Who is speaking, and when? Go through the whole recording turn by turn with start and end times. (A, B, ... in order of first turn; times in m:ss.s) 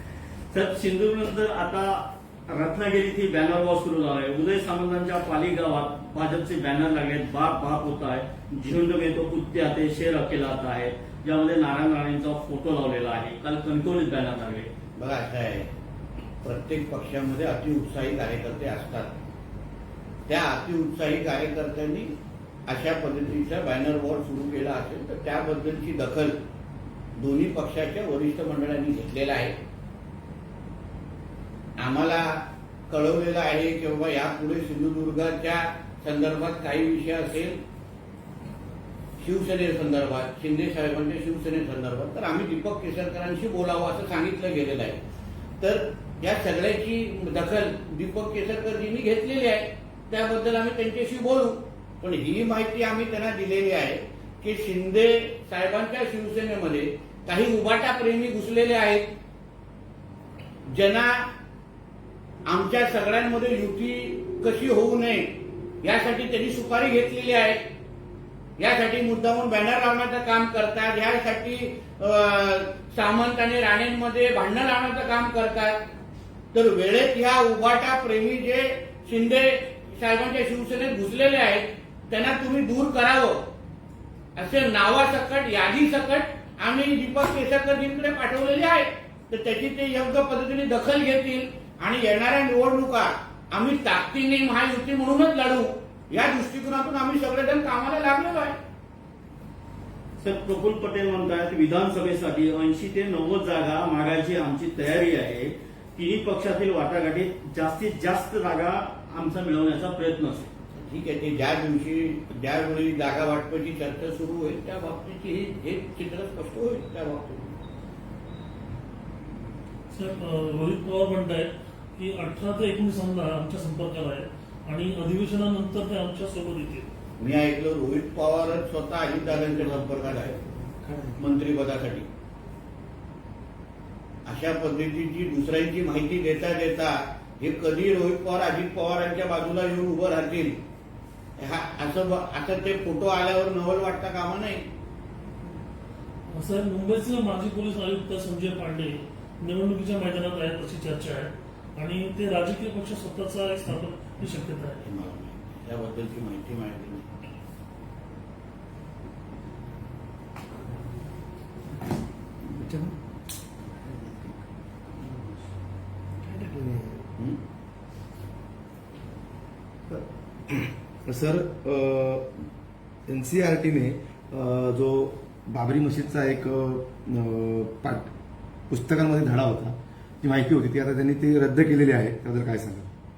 0:00.5-0:14.7 A
0:15.0-0:15.7 B
0:16.4-0:19.2 B
0:20.3-0:22.1 B
0:22.7-0:26.4 B
0:27.2-0:29.5 B
0:31.8-0:37.6 B
0:39.2-0:45.0 B
0:45.6-0:59.1 B
1:00.7-1:01.3 B
1:02.5-1:07.6 B
1:08.6-1:15.8 B
1:16.5-1:23.4 B
1:24.4-1:38.6 B
1:40.2-1:50.5 A
1:50.8-1:57.6 B
1:59.9-2:06.9 C
2:07.2-2:10.3 B
2:09.3-2:11.2 D
2:11.2-2:12.1 B
2:14.3-2:20.6 B
2:21.4-2:24.6 B
2:26.3-2:34.8 C
2:34.8-2:37.1 B
2:42.5-2:43.0 D
2:43.8-2:44.4 D
2:45.0-2:45.3 D
2:46.2-2:47.1 D
2:49.9-2:52.4 D
2:53.1-2:58.1 D
2:58.7-3:02.9 D